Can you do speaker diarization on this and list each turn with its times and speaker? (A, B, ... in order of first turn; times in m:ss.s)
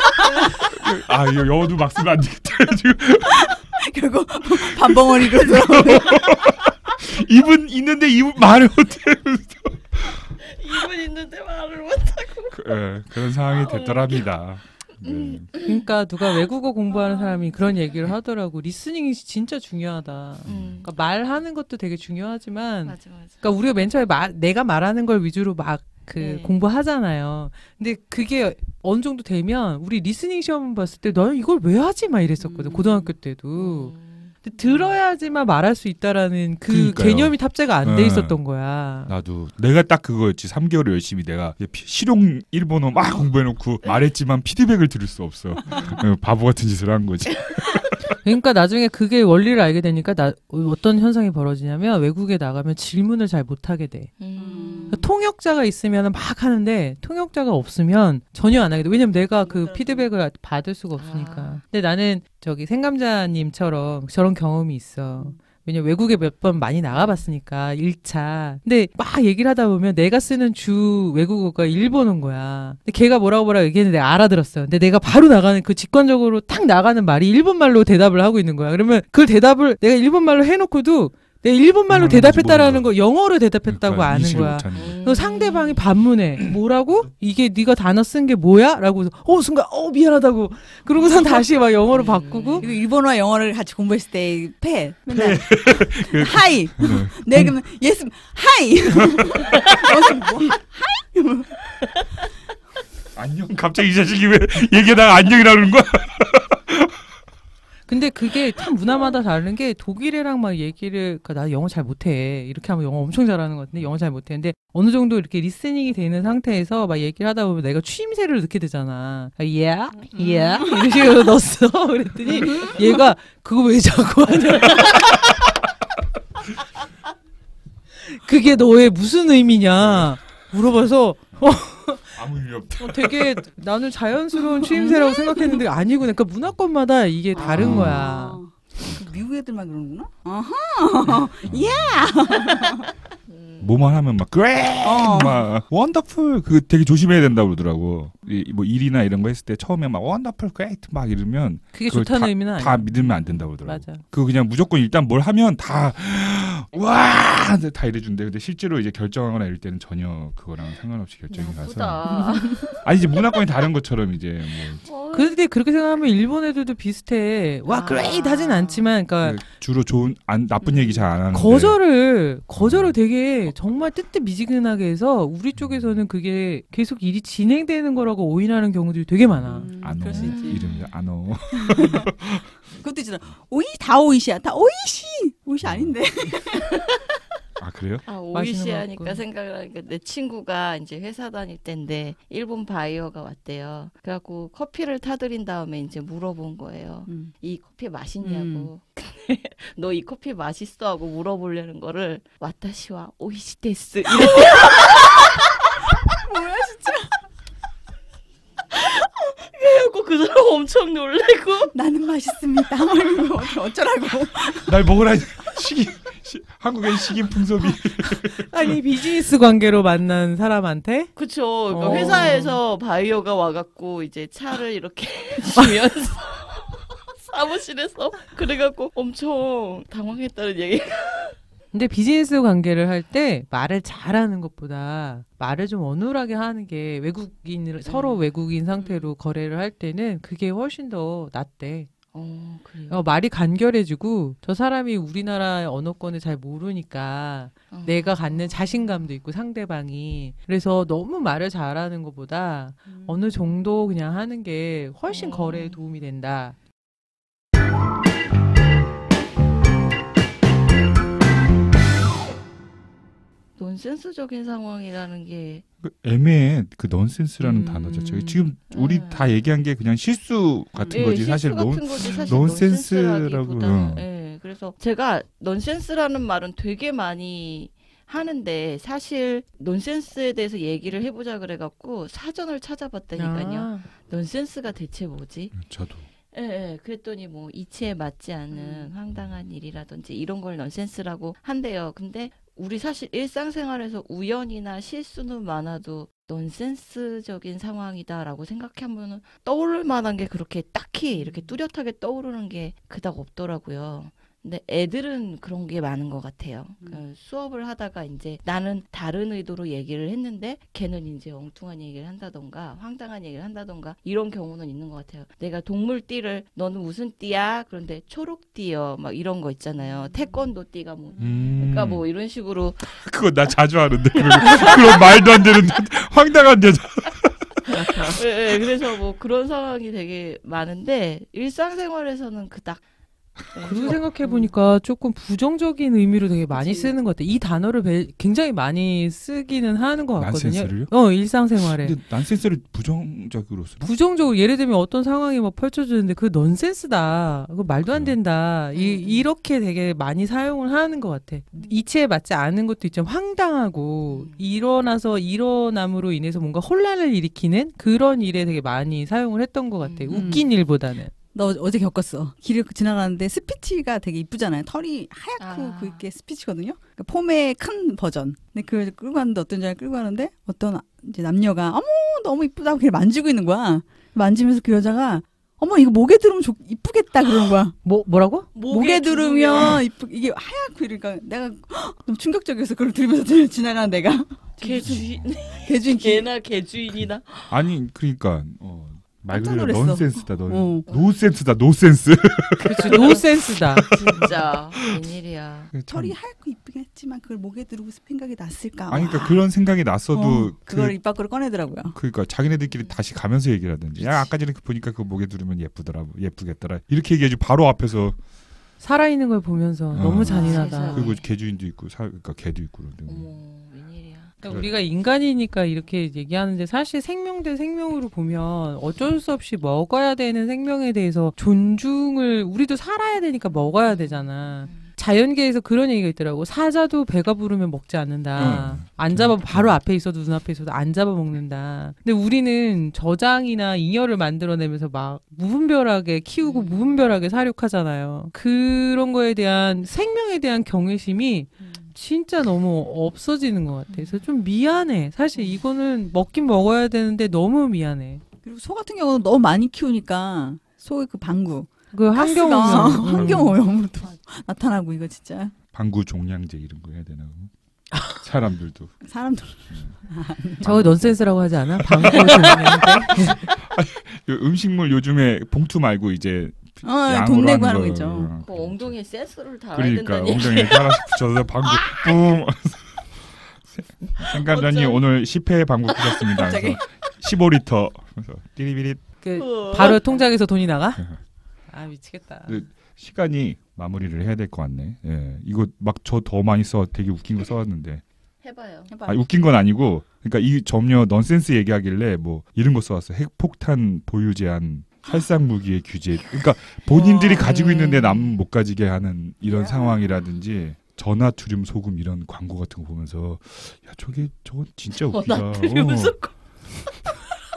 0:00.2-0:00.6 A
0:00.5-0:03.6 B
0:03.3-0:06.3 C
0:04.5-0:10.2 B
0:10.4-0:12.8 A
0:12.5-0:15.5 B
0:13.4-0:14.3 A
0:15.0-0:18.0 A
0:15.6-0:39.1 D
0:20.4-0:20.8 B
0:20.4-0:20.9 A
0:22.8-0:23.5 A
0:26.2-0:26.6 A
0:32.4-0:34.9 A
0:36.7-0:38.4 B
0:39.0-0:48.0 B
0:45.7-0:46.0 A
0:48.2-0:54.1 D
0:54.2-0:55.0 A
0:54.4-0:55.0 C
0:54.9-1:32.7 D
0:59.4-1:00.1 C
1:00.9-1:01.6 A
1:21.9-1:22.9 B
1:23.6-1:25.0 B
1:24.7-1:25.8 A
1:31.9-1:32.7 A
1:32.6-1:41.6 C
1:35.1-1:37.6 B
1:38.9-1:39.8 B
1:43.1-1:46.9 B
1:47.9-2:05.2 D
2:00.1-2:00.9 C
2:02.4-2:02.8 C
2:08.0-2:12.2 D
2:09.8-2:10.1 B
2:12.2-2:13.4 B
2:12.8-2:18.4 D
2:14.6-2:15.6 C
2:17.3-2:22.8 C
2:17.6-2:18.0 B
2:21.4-2:22.2 B
2:23.3-2:23.7 A
2:23.6-2:42.0 B
2:24.8-2:25.4 C
2:31.7-2:34.0 D
2:41.3-2:42.8 A
2:42.1-2:42.8 C
2:42.8-2:44.8 B
2:44.8-2:45.4 A
2:45.1-2:49.4 D
2:47.7-2:48.9 A
2:49.2-2:51.8 B
2:51.3-2:59.7 D
2:52.6-2:53.0 B
2:55.6-2:56.0 B
2:59.4-3:00.6 C
2:59.8-3:02.4 B
3:00.1-3:00.9 A
3:01.5-3:02.1 C
3:02.8-3:07.0 C
3:05.6-3:06.0 B
3:07.6-3:08.0 B
3:08.0-3:25.7 A
3:08.3-3:09.2 D
3:17.1-3:17.3 C
3:18.2-3:18.7 C
3:25.9-3:27.2 C
3:28.7-3:31.7 A
3:31.7-3:34.7 C
3:34.6-3:38.8 B
3:38.0-3:41.1 D
3:41.2-3:51.4 A
3:41.7-3:42.6 D
3:51.7-4:01.9 D
3:57.8-3:58.2 A
3:58.8-3:59.1 C
4:02.1-4:03.0 A
4:02.9-4:16.5 D
4:07.7-4:08.6 A
4:12.9-4:13.2 C
4:15.1-4:15.8 A
4:23.6-4:25.6 A
4:25.8-4:34.0 B
4:27.4-4:28.3 D
4:28.7-4:29.3 A
4:30.7-4:31.1 C
4:30.9-4:45.6 A
4:43.2-4:43.8 D
4:45.5-4:46.1 B
4:46.3-5:23.0 A
5:21.2-5:22.0 B
5:22.9-5:28.7 B
5:24.1-5:25.6 A
5:27.7-5:32.8 A
5:33.5-5:34.4 A
5:33.6-5:42.0 D
5:36.5-5:37.0 C
5:40.2-5:40.9 B
5:41.6-5:43.9 B
5:43.8-6:01.1 D
5:47.8-5:48.2 B
5:48.7-5:49.3 A
5:54.1-5:54.4 A
5:59.8-6:00.4 A
6:00.1-6:00.5 C
6:01.3-6:17.7 C
6:05.4-6:06.0 A
6:17.8-6:18.5 D
6:18.5-6:19.8 A
6:18.7-6:25.0 C
6:24.6-6:27.5 A
6:24.9-6:25.2 B
6:25.6-6:26.3 C
6:26.9-6:34.9 B
6:29.3-6:30.8 C
6:30.9-6:31.2 A
6:32.6-6:35.7 A
6:32.6-6:33.9 D
6:35.7-6:36.2 B
6:35.9-6:39.4 C
6:38.9-6:41.0 B
6:40.1-6:42.0 C
6:41.9-6:48.2 B
6:42.7-6:43.0 A
6:44.0-6:44.3 C
6:48.8-6:51.1 D
6:49.9-6:53.3 B
6:50.0-6:51.2 A
6:53.1-6:54.4 A
6:54.4-7:28.2 D
6:54.4-6:54.7 B
7:03.8-7:04.9 A
7:08.4-7:09.8 B
7:16.4-7:16.9 A
7:28.4-7:35.5 C
7:31.9-7:33.6 D
7:32.7-7:33.4 B
7:35.7-7:37.5 B
7:38.1-7:38.9 B
7:39.0-7:40.6 C
7:40.6-7:48.9 B
7:40.6-7:43.4 D
7:46.8-7:48.3 C
7:48.4-7:52.1 A
7:49.7-7:59.0 B
7:54.2-7:55.0 A
7:55.9-7:56.4 A
7:56.4-7:56.8 C
7:59.2-8:01.0 D
7:59.3-8:00.2 A
8:01.7-8:02.6 D
8:02.5-8:08.0 B
8:08.4-8:08.9 A
8:08.9-8:09.2 C
8:09.1-8:26.2 B
8:16.9-8:17.5 C
8:17.2-8:18.4 A
8:19.4-8:20.1 C
8:25.0-8:27.1 A